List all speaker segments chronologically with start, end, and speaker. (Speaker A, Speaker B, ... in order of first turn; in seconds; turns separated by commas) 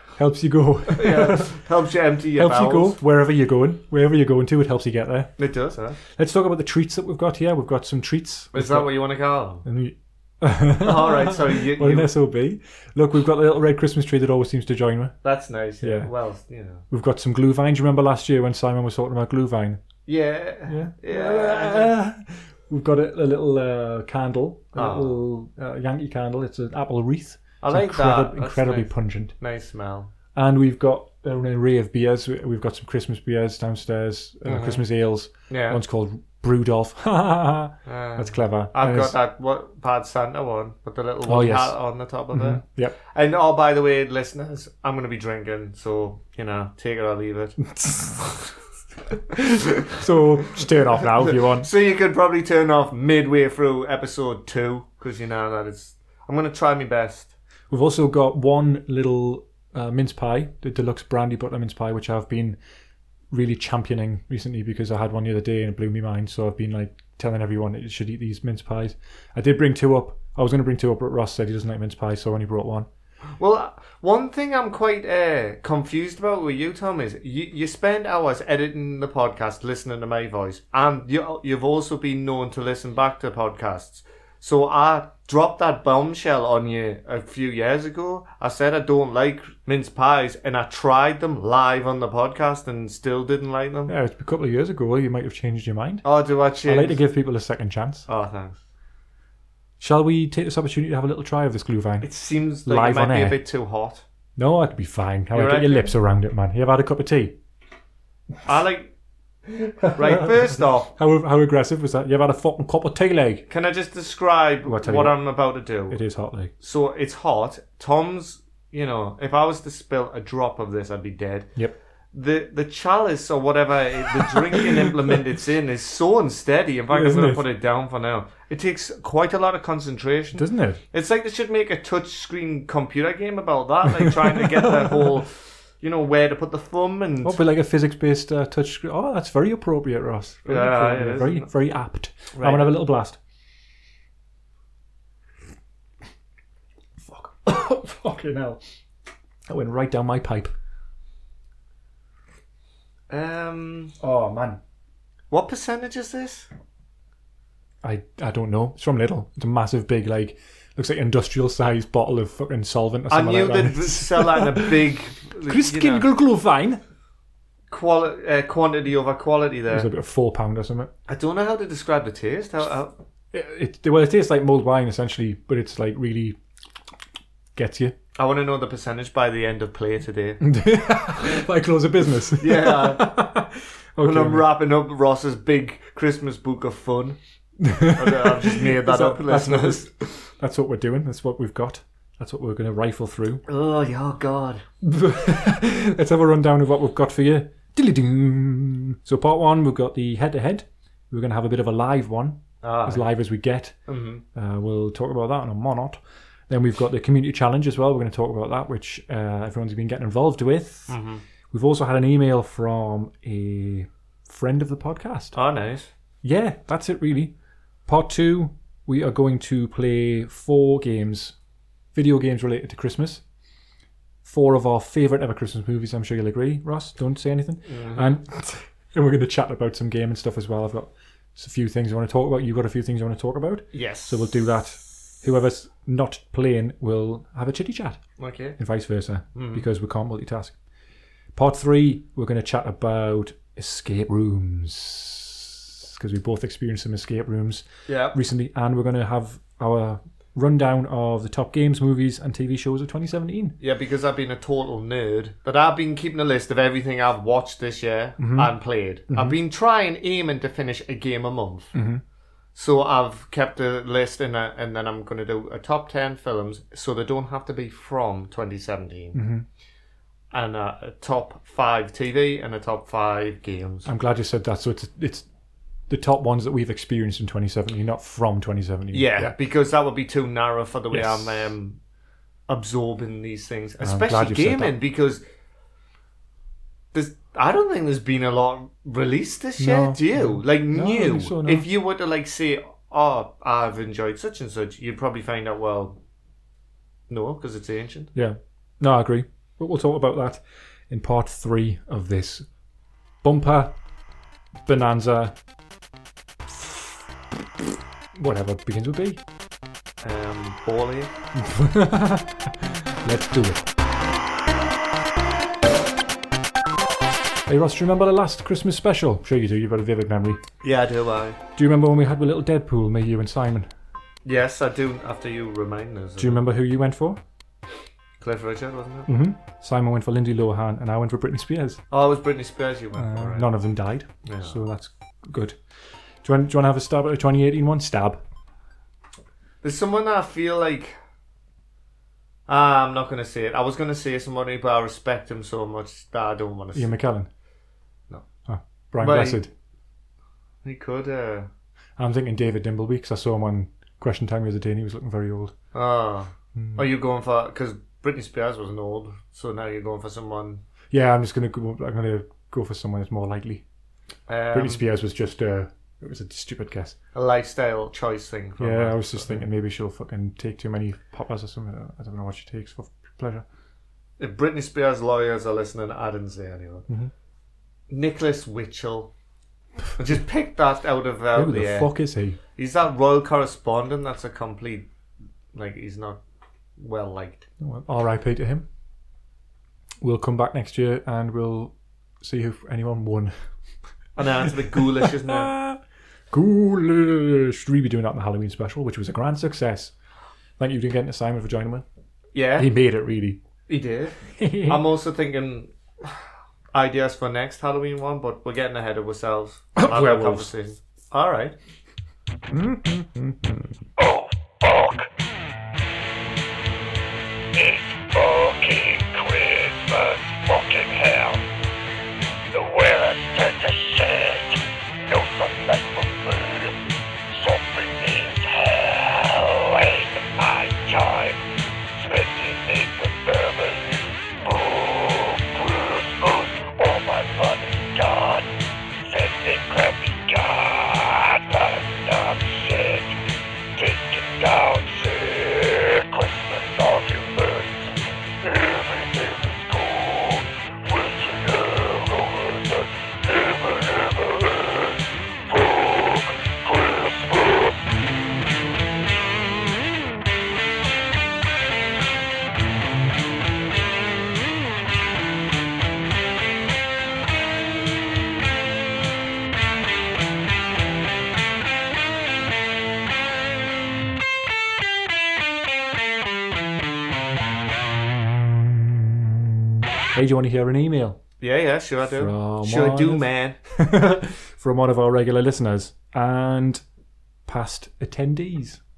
Speaker A: 0.2-1.6, Speaker B: 0.9-3.0, Speaker A: 2.4-5.3, Speaker B: 5.4-6.0, Speaker A: 6.1-8.9, Speaker B: 8.5-9.7, Speaker A: 9.6-15.2, Speaker B: 10.8-12.1, Speaker B: 15.2-16.9, Speaker A: 15.8-16.1, Speaker A: 16.9-19.8, Speaker B: 20.1-21.9, Speaker A: 20.7-29.3, Speaker B: 24.8-25.2, Speaker B: 27.6-30.1, Speaker A: 30.4-39.1, Speaker B: 34.5-34.9, Speaker B: 35.5-35.8, Speaker B: 37.9-47.7, Speaker A: 41.3-41.8, Speaker A: 42.3-43.0, Speaker A: 47.7-48.5, Speaker A: 49.8-51.7, Speaker B: 51.4-57.3, Speaker A: 57.7-62.6, Speaker A: 63.3-72.9, Speaker B: 73.4-93.9, Speaker A: 93.9-96.1, Speaker B: 96.0-97.0, Speaker A: 96.6-98.1, Speaker B: 98.1-98.6, Speaker A: 99.8-102.1, Speaker B: 102.0-104.0, Speaker A: 102.7-103.4, Speaker A: 104.4-107.4, Speaker B: 105.3-105.9, Speaker B: 108.5-108.9, Speaker A: 109.7-113.5, Speaker B: 110.0-110.9, Speaker B: 113.5-116.0, Speaker A: 114.7-115.3, Speaker A: 115.9-116.5, Speaker B: 116.6-121.6, Speaker B: 122.1-137.4, Speaker A: 126.9-127.4, Speaker A: 130.3-130.8, Speaker A: 134.0-135.1, Speaker A: 137.2-143.2, Speaker B: 140.5-141.5, Speaker B: 142.3-142.7, Speaker A: 147.0-148.6, Speaker A: 149.5-150.5, Speaker B: 153.1-153.9, Speaker A: 154.0-154.6, Speaker B: 155.3-156.5, Speaker A: 157.8-164.8, Speaker B: 163.1-166.1, Speaker A: 165.5-166.8, Speaker B: 167.7-169.9, Speaker A: 169.7-170.9, Speaker B: 171.1-172.9, Speaker A: 173.3-176.4, Speaker A: 177.6-178.0, Speaker B: 178.2-180.4, Speaker A: 180.4-184.5, Speaker B: 182.4-183.2, Speaker B: 184.0-187.2, Speaker A: 187.6-193.4, Speaker B: 187.8-189.9, Speaker B: 193.5-194.6, Speaker A: 194.8-203.8, Speaker B: 202.6-203.1, Speaker B: 203.9-204.2, Speaker A: 204.3-211.0, Speaker B: 210.9-211.2, Speaker A: 211.5-215.3, Speaker B: 215.3-215.9, Speaker A: 216.2-217.3, Speaker A: 217.9-221.3, Speaker A: 221.9-223.2, Speaker A: 224.2-238.0, Speaker B: 227.7-228.1, Speaker B: 233.7-234.2, Speaker B: 238.2-238.6, Speaker A: 238.6-240.6, Speaker B: 239.3-239.7, Speaker A: 241.3-253.6, Speaker B: 247.9-248.2, Speaker B: 253.6-261.7, Speaker A: 258.2-258.5, Speaker A: 259.1-259.4, Speaker A: 261.7-262.0, Speaker B: 262.6-269.2, Speaker A: 269.1-269.4, Speaker B: 270.3-273.9, Speaker A: 273.9-275.3, Speaker A: 275.9-279.3, Speaker B: 278.9-281.8, Speaker A: 280.9-281.5, Speaker B: 282.5-285.2, Speaker A: 283.8-284.8, Speaker B: 286.9-296.0, Speaker A: 289.6-291.7, Speaker B: 297.1-298.1, Speaker A: 298.1-302.5, Speaker A: 303.2-303.8, Speaker A: 304.7-305.4, Speaker A: 306.5-307.0, Speaker A: 308.1-309.2, Speaker B: 310.0-311.1, Speaker A: 311.4-313.7, Speaker A: 317.5-320.4, Speaker B: 320.6-321.4, Speaker A: 321.6-323.7, Speaker B: 324.2-326.4, Speaker A: 326.2-327.2, Speaker B: 328.2-329.1, Speaker A: 329.1-331.8, Speaker B: 331.9-333.5, Speaker A: 333.0-335.6, Speaker B: 334.2-334.6, Speaker A: 336.2-338.2, Speaker B: 339.6-340.9, Speaker B: 342.5-346.9, Speaker A: 346.8-347.3, Speaker A: 348.5-349.5, Speaker B: 349.0-349.4, Speaker B: 350.6-351.5, Speaker A: 352.0-355.6, Speaker B: 355.7-360.6, Speaker A: 356.6-356.9, Speaker A: 360.9-363.6, Speaker B: 364.3-364.8, Speaker A: 364.5-367.0, Speaker B: 367.1-369.4, Speaker A: 368.6-373.4, Speaker B: 374.2-376.9, Speaker B: 377.9-379.1, Speaker B: 380.0-381.9, Speaker A: 381.3-382.4, Speaker B: 382.6-384.9, Speaker B: 385.5-386.2, Speaker B: 386.8-387.5, Speaker A: 387.6-388.7, Speaker A: 390.0-393.4, Speaker B: 394.2-395.5, Speaker A: 394.7-395.8, Speaker A: 396.3-399.9, Speaker A: 400.6-401.9, Speaker B: 402.3-402.7, Speaker A: 402.6-403.4, Speaker B: 403.7-406.2, Speaker A: 404.4-404.8, Speaker B: 406.7-411.6, Speaker A: 409.8-410.5, Speaker A: 412.5-413.7, Speaker C: 414.0-415.1, Speaker C: 417.6-421.4, Speaker C: 422.5-424.6, Speaker C: 425.1-426.7, Speaker C: 427.4-431.4, Speaker C: 432.0-438.5, Speaker C: 439.1-443.1, Speaker C: 443.8-447.9, Speaker C: 448.4-454.5, Speaker C: 455.5-456.1, Speaker C: 456.7-457.3, Speaker A: 480.1-481.2, Speaker B: 481.4-483.6, Speaker A: 482.1-486.8, Speaker A: 487.5-488.8